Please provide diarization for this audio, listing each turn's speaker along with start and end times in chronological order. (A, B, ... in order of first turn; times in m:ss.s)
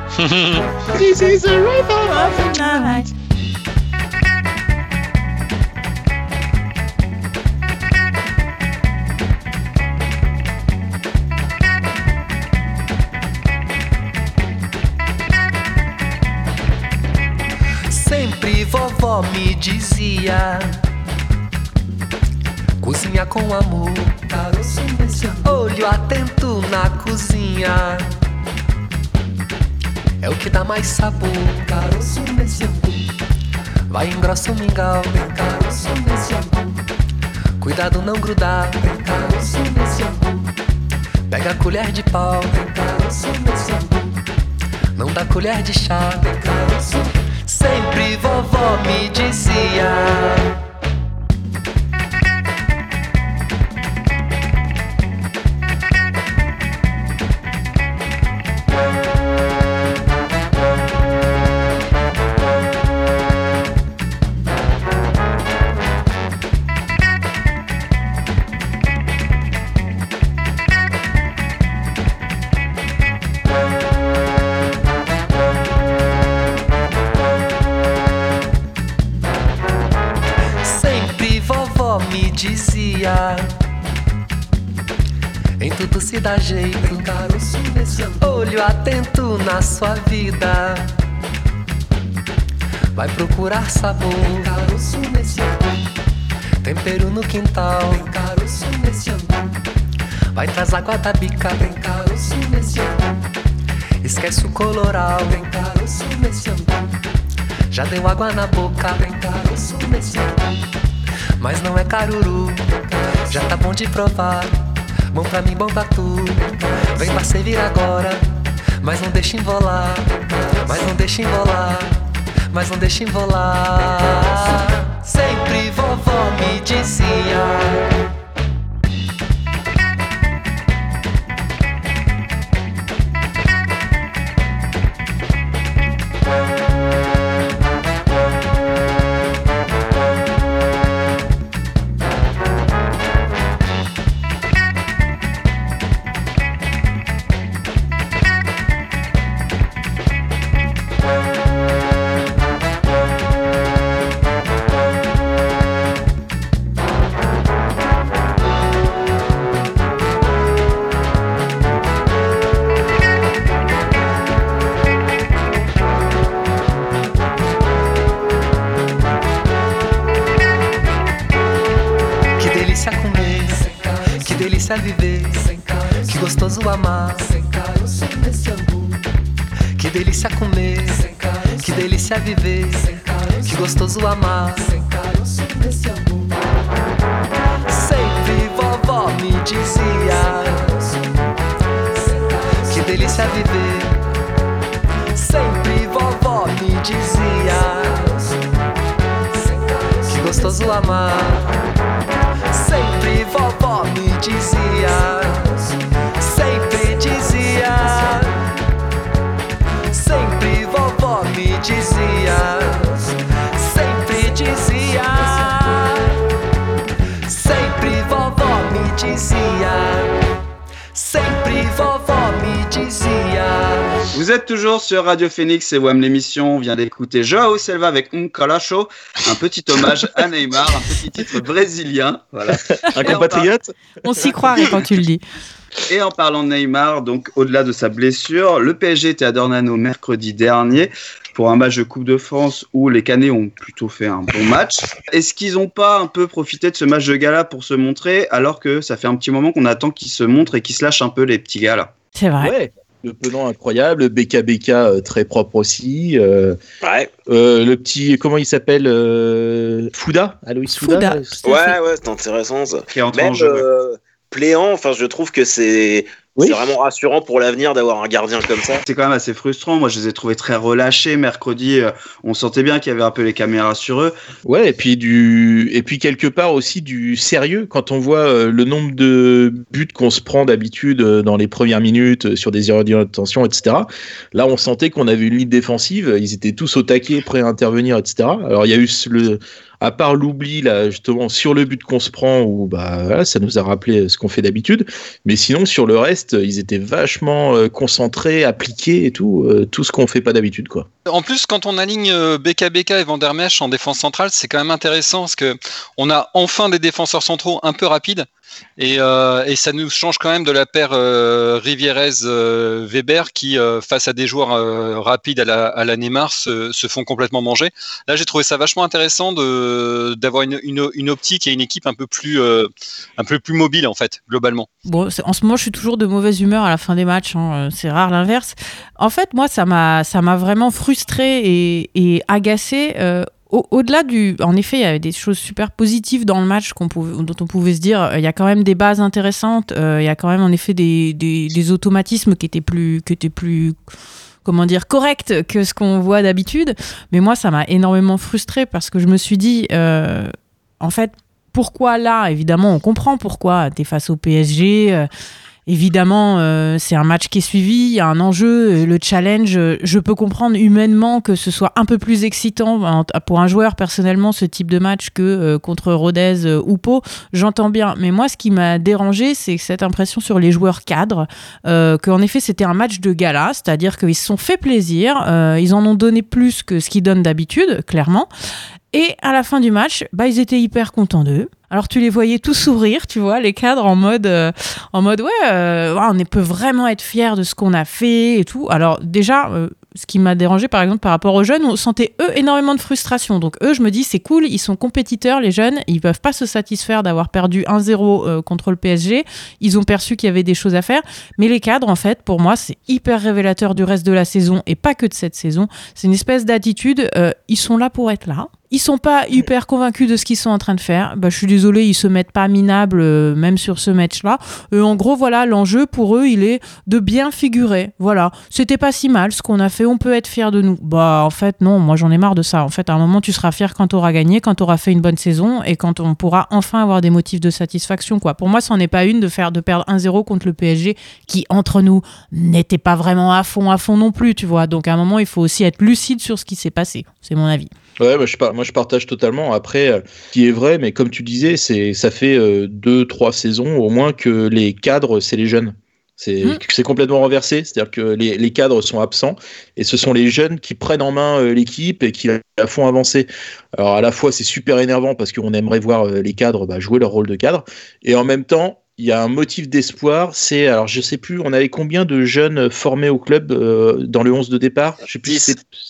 0:00.2-0:00.7 A
0:00.9-0:03.1 B
0:02.0-0:03.1 C
0:17.9-0:20.8 D
0:22.8-0:28.1 D
0:30.2-0:33.1 D
0:33.9-0:36.8 D
0:37.6-0:40.5 D
0:41.3-0:44.2 D
0:44.9-0:50.5 D
1:20.6-1:23.5 D
1:25.6-1:30.9 D
1:32.9-1:35.7 D
1:36.6-1:39.6 D
1:40.3-1:43.2 D
1:44.0-1:47.0 D
1:47.7-1:50.4 D
1:51.4-2:02.0 D
2:02.5-2:07.9 D
2:52.4-2:59.0 D
2:59.8-3:06.3 D
3:07.7-3:11.1 D
3:11.9-3:14.0 D
3:15.1-3:18.4 D
3:19.3-3:21.7 D
3:22.5-3:25.6 D
3:26.2-3:28.4 D
3:29.9-3:36.1 D
3:37.3-3:40.1 D
3:40.9-3:43.9 D
3:44.1-3:53.5 E
3:52.9-3:54.7 B
3:54.0-3:55.2 C
3:55.9-4:11.9 E
4:12.2-4:12.5 C
4:12.4-4:16.6 B
4:16.8-4:17.1 F
4:17.3-4:21.3 B
4:20.7-4:21.8 C
4:21.4-4:28.8 F
4:22.9-4:23.6 E
4:28.8-4:34.1 E
4:34.4-5:00.9 B
5:01.0-5:08.2 A
5:08.8-5:24.7 A
5:24.8-5:43.8 C
5:44.4-5:55.1 C
5:55.7-6:18.3 C
6:18.9-7:17.7 C
7:18.0-7:45.6 B
7:45.1-7:45.5 F